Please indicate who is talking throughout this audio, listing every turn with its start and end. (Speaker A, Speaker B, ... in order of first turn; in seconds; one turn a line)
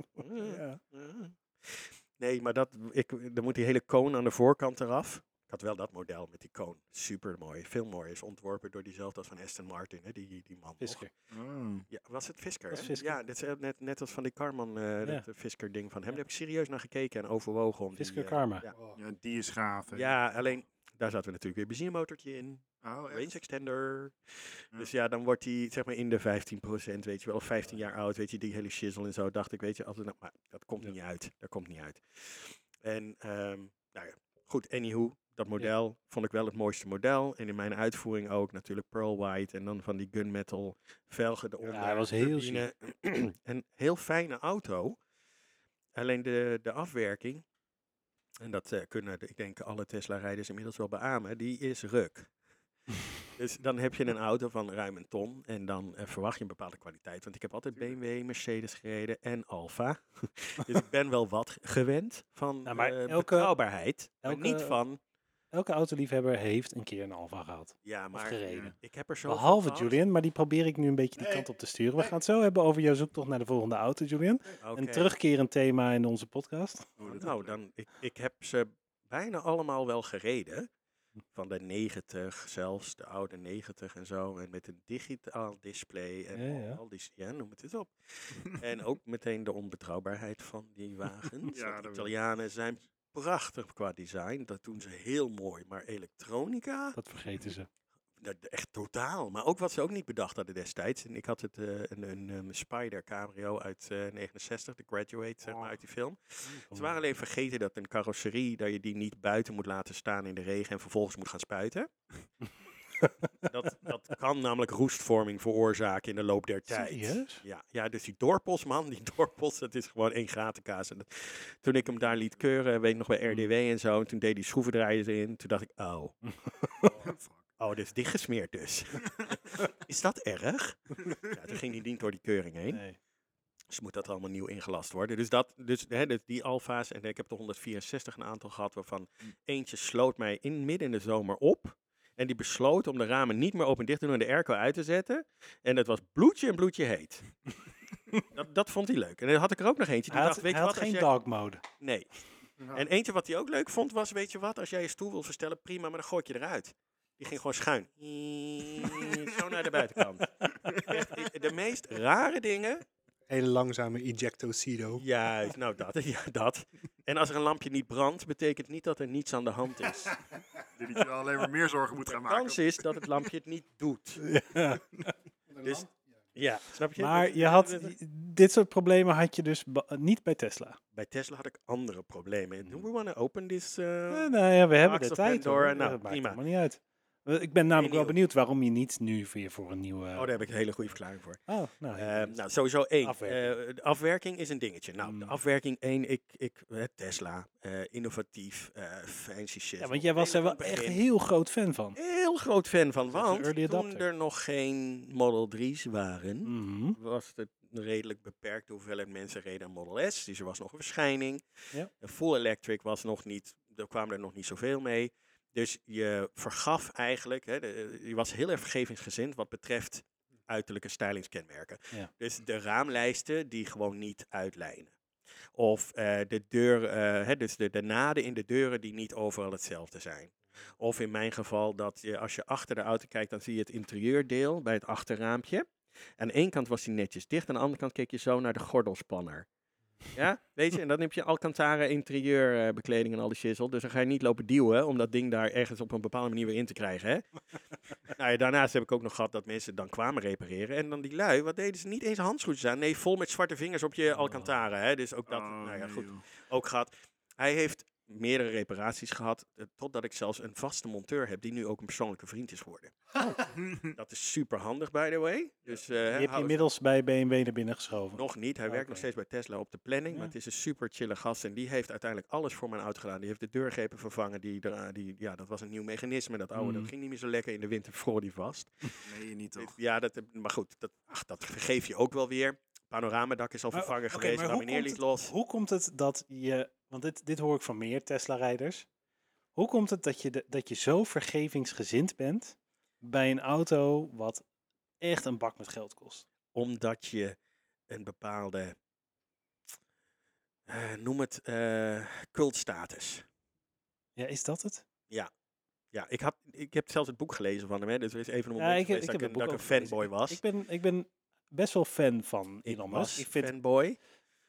Speaker A: 0.2-11.1
Speaker B: 0.4-0.8
Speaker B: 10.8-11.1
Speaker C: 11.3-11.9
Speaker A: 11.9-18.7
Speaker B: 12.7-13.2
Speaker B: 18.0-18.6
Speaker D: 18.7-19.0
Speaker C: 18.9-20.1
Speaker A: 19.9-45.0
Speaker C: 22.8-23.3
Speaker B: 41.7-42.7
Speaker A: 45.9-47.4
Speaker A: 48.4-52.3
Speaker A: 53.4-65.0
Speaker B: 62.6-63.5
Speaker B: 64.2-64.8
Speaker B: 65.5-68.7
Speaker A: 67.8-70.0
Speaker C: 68.5-68.7
Speaker B: 69.3-76.9
Speaker A: 74.6-75.1
Speaker C: 77.0-77.6
Speaker A: 77.0-80.7
Speaker A: 81.3-97.0
Speaker B: 86.3-86.8
Speaker C: 91.5-92.1
Speaker B: 97.0-97.7
Speaker A: 98.2-111.9
Speaker B: 106.5-107.0
Speaker B: 113.0-113.3
Speaker A: 113.4-126.2
Speaker B: 116.7-117.4
Speaker B: 126.2-126.5
Speaker C: 126.8-127.5
Speaker A: 127.6-132.8
Speaker B: 132.7-133.0
Speaker A: 133.7-147.2
Speaker A: 148.3-151.1
Speaker B: 150.1-151.6
Speaker A: 151.8-152.1
Speaker A: 152.7-162.8
Speaker C: 160.6-160.9
Speaker D: 163.3-165.0
Speaker A: 165.0-170.1
Speaker C: 170.8-172.7
Speaker A: 172.1-174.2
Speaker B: 174.2-175.1
Speaker D: 175.5-176.2
Speaker A: 175.6-177.9
Speaker B: 176.9-180.8
Speaker A: 180.9-186.4
Speaker B: 184.1-190.3
Speaker A: 187.7-188.2
Speaker A: 190.1-191.4
Speaker B: 191.5-192.4
Speaker A: 191.9-201.0
Speaker B: 193.0-193.5
Speaker B: 195.0-195.3
Speaker B: 199.8-201.9
Speaker A: 201.9-211.4
Speaker B: 203.1-204.1
Speaker B: 206.4-207.0
Speaker A: 212.0-224.9
Speaker A: 225.5-235.7
Speaker A: 236.2-239.4
Speaker A: 240.1-247.3
Speaker A: 248.0-262.9
Speaker B: 254.1-254.5
Speaker C: 255.3-256.2
Speaker A: 263.9-266.7
Speaker B: 266.1-269.1
Speaker A: 268.1-278.7
Speaker B: 276.6-276.9
Speaker C: 279.0-279.8
Speaker A: 279.6-285.3
Speaker B: 283.7-288.9
Speaker B: 289.6-294.4
Speaker B: 295.0-296.2
Speaker A: 296.5-297.4
Speaker A: 297.9-298.8
Speaker A: 300.7-303.2
Speaker B: 304.2-304.8
Speaker A: 305.9-310.4
Speaker B: 308.6-313.5
Speaker A: 312.6-314.0